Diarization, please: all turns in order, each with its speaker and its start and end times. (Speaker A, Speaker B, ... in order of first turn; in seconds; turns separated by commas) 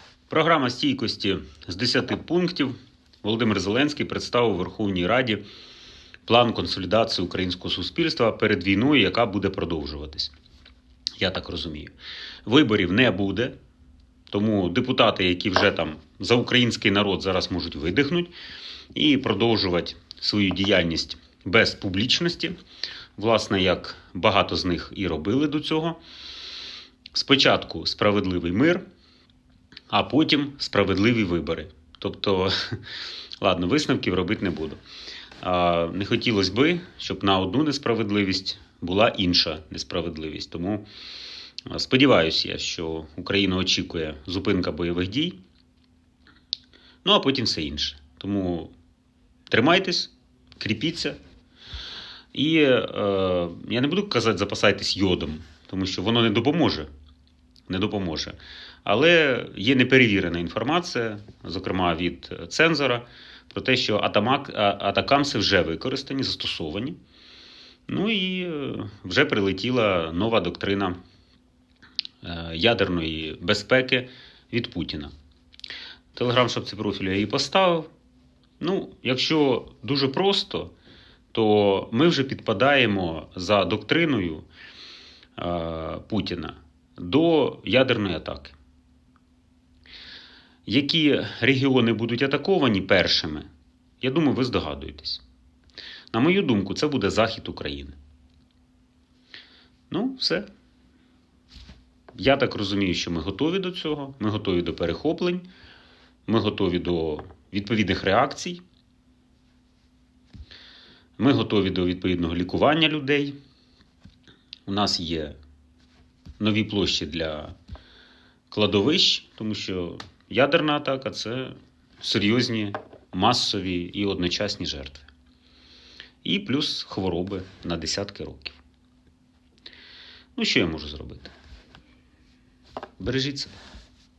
Speaker A: 0.3-5.4, Speaker A: 6.2-10.3, Speaker A: 11.2-11.9, Speaker A: 12.4-13.5, Speaker A: 14.3-18.3, Speaker A: 18.9-22.6, Speaker A: 23.1-26.0, Speaker A: 27.1-28.8, Speaker A: 29.9-32.8, Speaker A: 33.4-34.8, Speaker A: 35.4-40.8, Speaker A: 41.7-45.4, Speaker A: 47.0-48.7, Speaker A: 49.5-51.2, Speaker A: 52.3-56.9, Speaker A: 57.7-67.0, Speaker A: 67.9-71.0, Speaker A: 72.2-75.1, Speaker A: 76.1-77.9, Speaker A: 78.6-80.7, Speaker A: 81.3-84.5, Speaker A: 85.4-88.5, Speaker A: 90.7-93.5, Speaker A: 94.0-95.2, Speaker A: 96.1-98.0, Speaker A: 99.9-100.5, Speaker A: 102.1-105.5, Speaker A: 106.2-108.6, Speaker A: 111.2-113.4, Speaker A: 114.7-115.4, Speaker A: 116.4-117.5, Speaker A: 118.5-125.1, Speaker A: 126.2-128.6, Speaker A: 130.3-131.3, Speaker A: 133.0-133.5